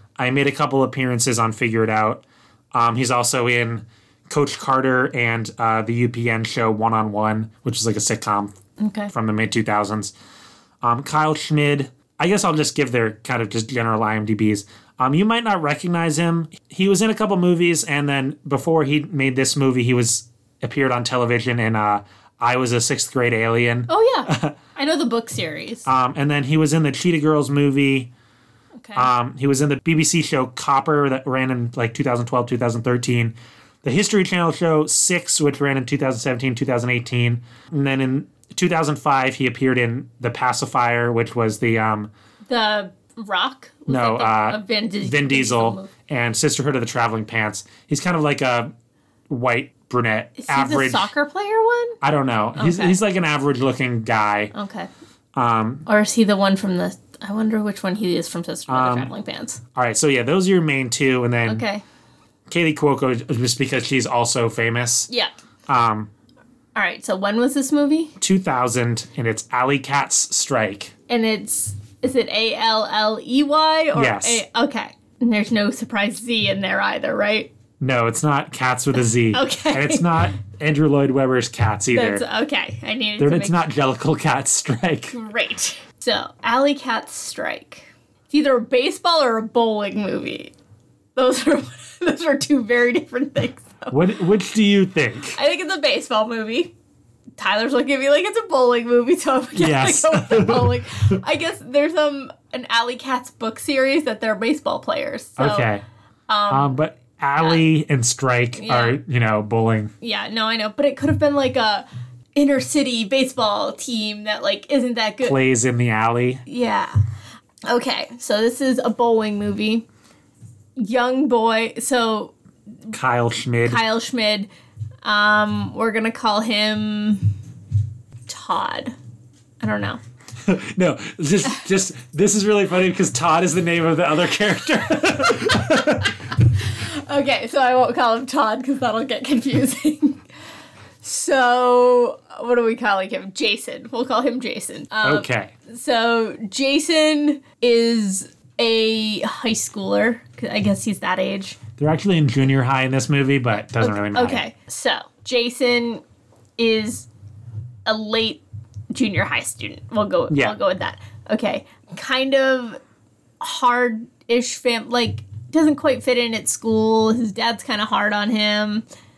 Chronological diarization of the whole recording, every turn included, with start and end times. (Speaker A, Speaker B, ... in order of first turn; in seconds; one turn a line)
Speaker A: 0.2-8.5
Speaker B: 8.8-9.1
Speaker A: 9.1-10.1
Speaker A: 10.8-24.6
Speaker B: 23.9-25.9
Speaker A: 25.9-28.1
Speaker B: 28.8-29.1
Speaker A: 28.9-42.1
Speaker B: 42.5-45.9
Speaker A: 43.9-48.7
Speaker A: 49.3-51.1
Speaker B: 50.4-52.0
Speaker A: 52.0-54.5
Speaker B: 52.5-53.0
Speaker B: 54.5-54.9
Speaker A: 55.3-55.9
Speaker B: 55.9-59.6
Speaker A: 58.7-59.1
Speaker A: 59.7-61.6
Speaker B: 61.5-61.8
Speaker A: 62.5-65.1
Speaker A: 65.7-66.1
Speaker B: 66.7-68.2
Speaker A: 68.2-70.9
Speaker B: 71.1-77.5
Speaker A: 73.9-74.4
Speaker A: 77.8-82.2
Speaker B: 79.3-80.3
Speaker B: 81.9-83.7
Speaker A: 83.2-85.1
Speaker B: 85.1-90.5
Speaker B: 91.2-94.0
Speaker A: 93.9-95.4
Speaker B: 95.3-96.7
Speaker B: 97.4-105.7
Speaker A: 99.5-101.1
Speaker A: 105.4-105.8
Speaker B: 106.3-106.8
Speaker A: 106.5-109.9
Speaker B: 107.4-107.7
Speaker B: 108.5-109.0
Speaker B: 110.0-115.3
Speaker A: 115.2-116.4
Speaker B: 116.5-117.0
Speaker B: 117.7-119.8
Speaker B: 120.8-122.3
Speaker A: 122.9-123.8
Speaker B: 123.6-124.5
Speaker B: 125.0-127.3
Speaker B: 128.3-128.9
Speaker B: 129.6-130.0
Speaker A: 130.4-136.2
Speaker B: 135.5-135.9
Speaker B: 136.5-140.2
Speaker B: 141.0-151.6
Speaker A: 145.0-145.5
Speaker A: 151.8-154.4
Speaker B: 153.8-156.0
Speaker B: 156.6-157.1
Speaker B: 157.8-162.8
Speaker A: 160.3-160.6
Speaker B: 163.4-168.8